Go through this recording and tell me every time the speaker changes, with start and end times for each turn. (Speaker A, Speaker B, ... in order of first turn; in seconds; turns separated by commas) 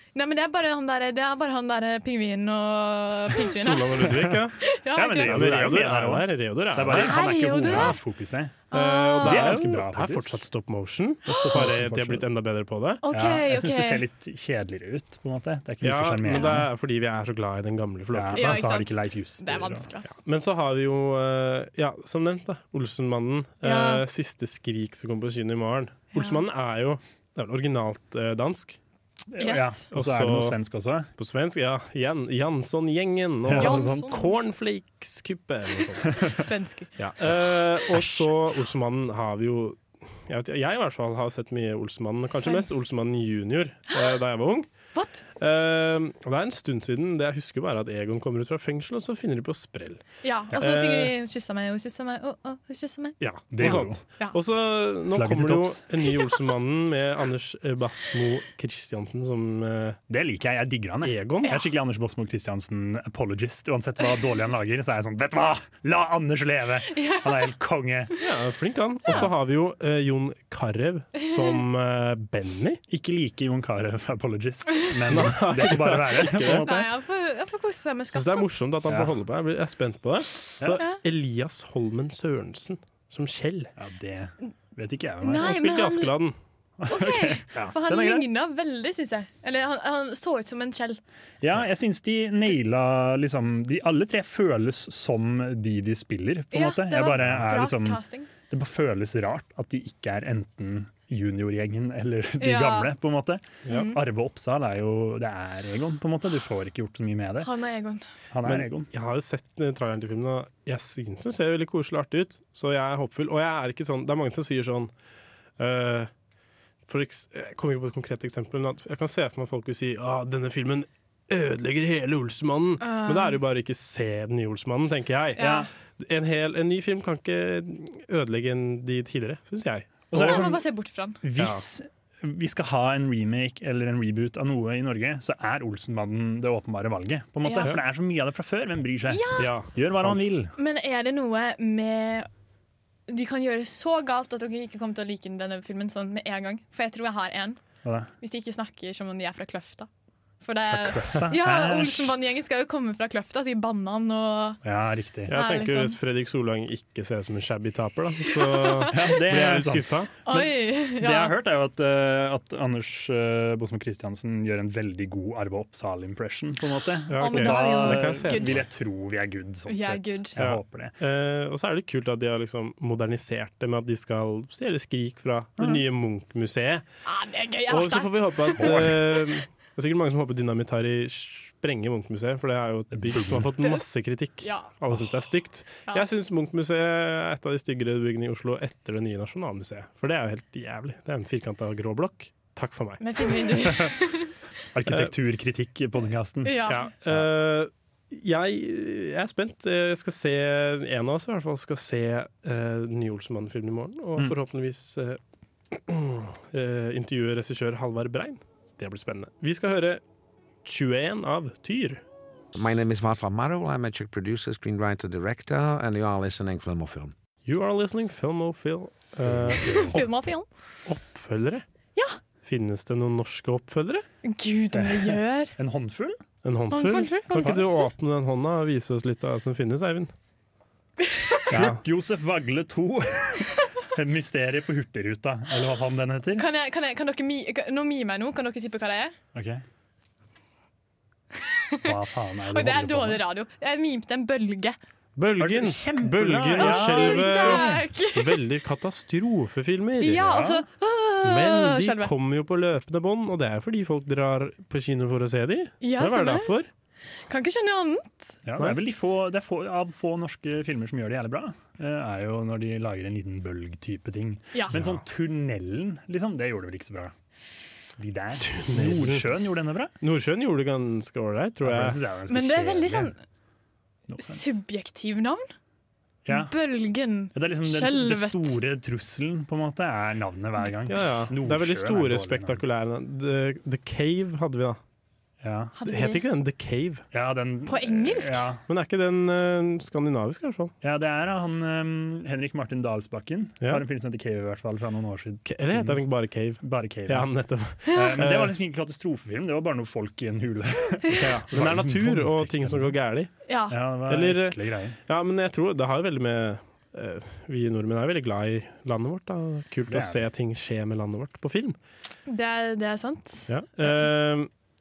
Speaker A: 0.1-5.4, Speaker B: 3.4-4.6, Speaker C: 4.1-4.4, Speaker C: 4.9-8.7, Speaker B: 5.2-8.0, Speaker A: 6.9-8.0, Speaker A: 8.7-9.6, Speaker B: 8.7-13.0, Speaker C: 9.2-10.4, Speaker C: 11.3-12.3, Speaker A: 13.0-14.0, Speaker C: 13.1-16.7, Speaker B: 15.8-18.6, Speaker A: 16.3-16.6, Speaker C: 18.1-19.9, Speaker A: 18.4-20.2, Speaker B: 20.2-28.8, Speaker A: 23.6-24.0, Speaker A: 26.1-26.4, Speaker C: 29.3-31.1, Speaker A: 29.4-29.8, Speaker B: 29.9-30.6, Speaker B: 31.2-36.3, Speaker C: 33.4-34.1, Speaker A: 33.5-34.4, Speaker A: 36.2-36.9, Speaker B: 37.0-44.7, Speaker A: 42.4-42.6, Speaker A: 44.9-45.2, Speaker B: 45.4-50.0, Speaker A: 50.2-54.4, Speaker B: 50.5-51.1, Speaker B: 53.2-60.0, Speaker C: 53.5-54.0, Speaker C: 55.1-55.8, Speaker C: 60.1-68.1, Speaker B: 61.0-61.6, Speaker A: 66.9-67.3, Speaker B: 68.2-72.8, Speaker A: 71.2-71.6, Speaker C: 72.9-76.9, Speaker B: 75.1-76.7, Speaker A: 76.6-78.5, Speaker B: 78.1-83.7, Speaker C: 78.9-79.1, Speaker C: 83.8-85.6, Speaker A: 85.2-86.1, Speaker B: 85.4-86.3, Speaker C: 86.8-88.2, Speaker A: 86.9-91.0, Speaker C: 91.4-107.5, Speaker A: 96.5-98.3, Speaker A: 102.4-102.9, Speaker A: 103.7-104.0, Speaker A: 107.4-108.0, Speaker C: 108.3-108.9, Speaker B: 108.4-114.9, Speaker B: 115.6-116.1, Speaker B: 116.9-130.5, Speaker A: 122.8-123.4, Speaker A: 125.4-125.7, Speaker C: 125.4-125.7, Speaker C: 130.1-130.6, Speaker A: 130.1-131.2, Speaker C: 131.2-140.5, Speaker A: 137.4-137.7, Speaker A: 139.1-139.5, Speaker B: 139.4-140.3, Speaker A: 140.6-142.3, Speaker A: 143.1-147.6, Speaker C: 147.8-148.1, Speaker A: 148.2-149.9, Speaker A: 150.4-154.6, Speaker B: 150.8-151.3, Speaker C: 150.9-152.1, Speaker C: 154.6-155.3, Speaker B: 155.3-160.1, Speaker A: 155.3-156.0, Speaker A: 158.3-158.9, Speaker C: 158.9-170.9, Speaker A: 160.2-161.3, Speaker B: 167.1-168.6, Speaker A: 167.2-168.6, Speaker A: 169.7-170.3, Speaker B: 170.4-176.8, Speaker A: 177.1-178.8, Speaker B: 177.7-193.4, Speaker C: 178.6-179.0, Speaker C: 182.9-183.5, Speaker A: 184.4-184.7, Speaker A: 193.0-194.3, Speaker C: 194.7-197.2, Speaker A: 196.4-196.9, Speaker B: 196.7-205.2, Speaker B: 205.7-210.0, Speaker B: 210.6-212.0, Speaker D: 212.6-217.1, Speaker B: 217.4-220.1, Speaker C: 219.2-220.0, Speaker A: 219.9-220.4, Speaker B: 220.9-221.6, Speaker B: 222.4-224.1, Speaker A: 224.2-225.5, Speaker C: 224.7-226.2, Speaker B: 226.4-230.1, Speaker A: 226.7-227.8, Speaker C: 227.4-227.7, Speaker A: 231.1-231.4, Speaker B: 231.5-231.8, Speaker C: 231.5-236.4, Speaker A: 236.4-239.1, Speaker C: 239.3-239.6, Speaker A: 241.4-241.8, Speaker C: 241.8-243.2, Speaker A: 242.5-244.8, Speaker B: 245.2-250.2, Speaker C: 245.4-247.8, Speaker A: 246.6-248.4, Speaker A: 250.0-252.1, Speaker C: 250.2-250.6, Speaker B: 251.2-256.7, Speaker A: 255.8-256.5, Speaker A: 257.3-258.4, Speaker C: 258.4-267.1, Speaker C: 268.0-269.9, Speaker B: 268.4-269.4, Speaker B: 270.0-272.0, Speaker C: 271.6-273.1, Speaker A: 272.3-273.2, Speaker C: 274.1-274.6, Speaker A: 274.2-275.4, Speaker C: 276.3-276.5, Speaker A: 276.3-278.6, Speaker C: 277.3-282.6, Speaker B: 280.9-284.8, Speaker C: 285.4-285.7, Speaker A: 285.8-286.2, Speaker B: 285.9-287.0, Speaker C: 287.1-288.6, Speaker A: 287.7-288.4, Speaker B: 288.7-290.7, Speaker C: 290.8-296.0, Speaker B: 295.4-298.6, Speaker C: 296.6-297.3, Speaker C: 297.9-303.0, Speaker B: 301.1-303.3, Speaker A: 303.5-303.8, Speaker C: 303.7-305.0, Speaker B: 304.1-311.8, Speaker C: 309.9-310.2, Speaker A: 312.3-314.1, Speaker B: 313.5-314.5